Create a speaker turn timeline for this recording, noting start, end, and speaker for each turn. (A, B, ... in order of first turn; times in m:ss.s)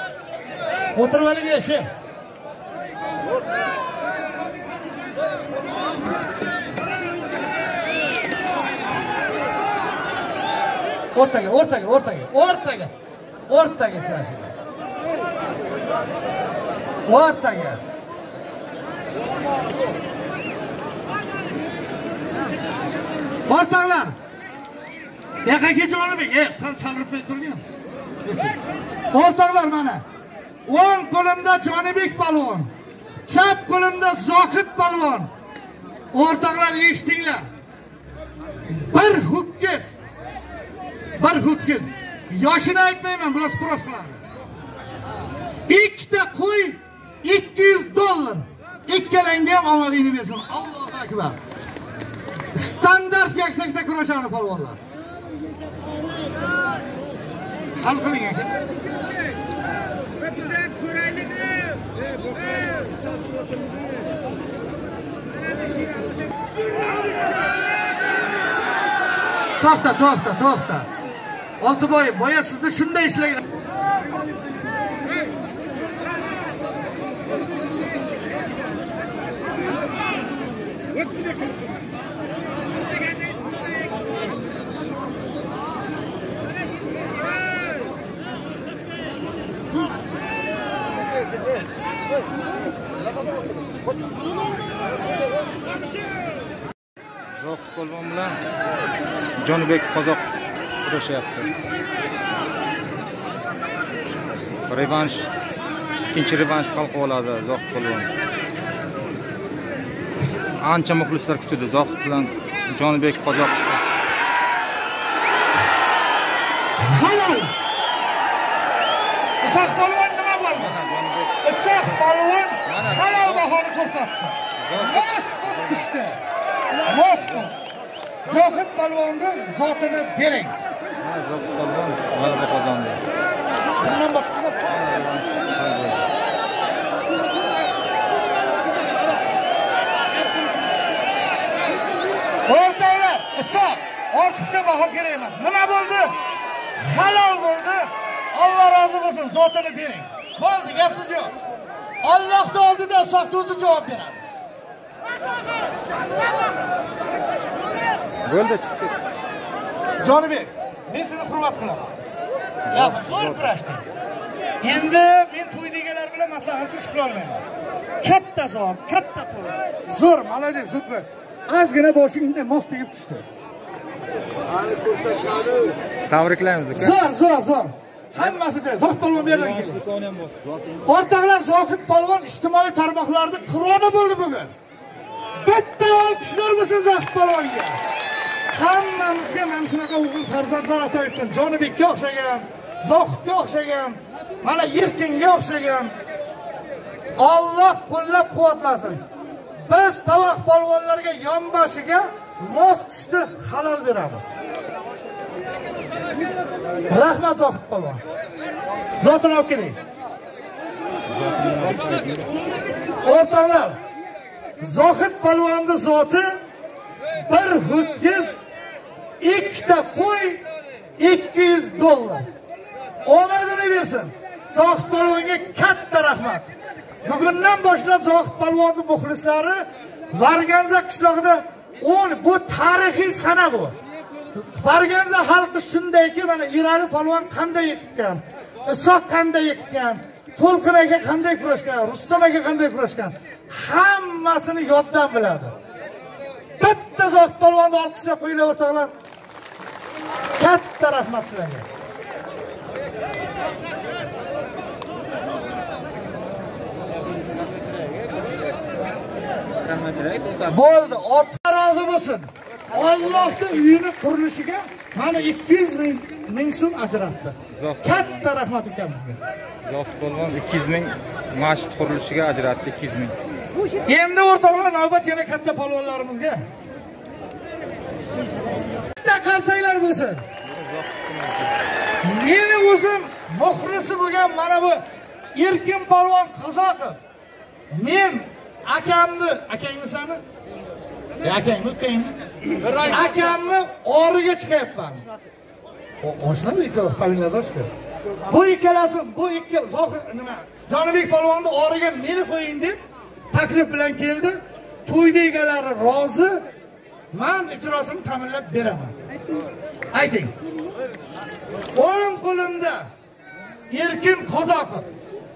0:00.9-0:01.9 A
0:11.1-0:12.9 A
0:13.5-0:14.5 A
0:17.0-0:17.8 A
0:23.5-0:24.1 A
0:25.4-0:27.6 A
0:28.2-0:28.6 A
0:29.1-0:30.0 A
0:30.7-0:32.7 A
0:33.2-0:35.3 A
0:36.1-0:37.5 A
0:38.7-0:39.9 A
0:41.2-0:44.2 A
0:45.7-0:51.4 A
0:52.5-0:54.8 A
0:57.8-0:58.5 A
1:09.6-1:10.9 A
1:11.6-1:13.4 A
1:37.4-1:38.4 B
1:39.4-1:40.3 B
1:40.8-1:41.6 B
1:44.7-1:45.3 B
1:46.1-1:48.1 B
1:50.6-1:53.8 B
1:56.8-1:57.5 A
1:59.4-2:00.8 A
2:00.6-2:01.4 B
2:01.4-2:06.2 A
2:02.7-2:03.4 B
2:04.6-2:05.1 B
2:06.9-2:07.6 A
2:08.2-2:10.5 A
2:11.0-2:13.0 B
2:13.6-2:14.3 A
2:14.7-2:16.1 B
2:22.5-2:26.1 A
2:26.8-2:31.3 A
2:32.0-2:34.2 A
2:38.2-2:39.0 B
2:40.0-2:42.0 A
2:42.7-2:43.5 B
2:42.7-2:43.8 A
2:44.6-2:47.4 A
2:48.0-2:53.2 A
2:56.1-2:57.0 B
2:56.7-2:59.8 A
2:59.3-3:00.6 B
3:00.9-3:04.5 A
3:05.4-3:07.8 A
3:08.5-3:15.9 A
3:17.2-3:19.0 A
3:19.6-3:24.3 A
3:26.9-3:28.0 A
3:29.0-3:29.8 A
3:31.1-3:32.3 B
3:33.0-3:33.8 A
3:34.6-3:36.4 A
3:37.2-3:38.3 A
3:39.2-3:40.4 A
3:41.0-3:42.3 A
3:43.0-3:46.5 A
3:47.0-3:53.7 A
3:54.3-4:05.5 A
4:06.6-4:08.9 A
4:10.4-4:11.7 A
4:19.9-4:20.1 B
4:20.4-4:29.2 A
4:27.5-4:28.3 B
4:29.6-4:33.2 B
4:33.8-4:36.4 A
4:39.0-4:40.2 A
4:40.5-4:41.4 B
4:42.0-4:44.8 A
4:45.3-4:47.0 A
4:47.7-4:50.2 A
4:51.2-4:52.1 A
4:52.8-4:55.0 A
4:56.0-4:57.7 A
4:58.3-5:02.8 A
5:03.3-5:06.4 A
5:07.1-5:08.9 A
5:09.9-5:10.3 A
5:11.7-5:12.9 A
5:13.7-5:14.9 A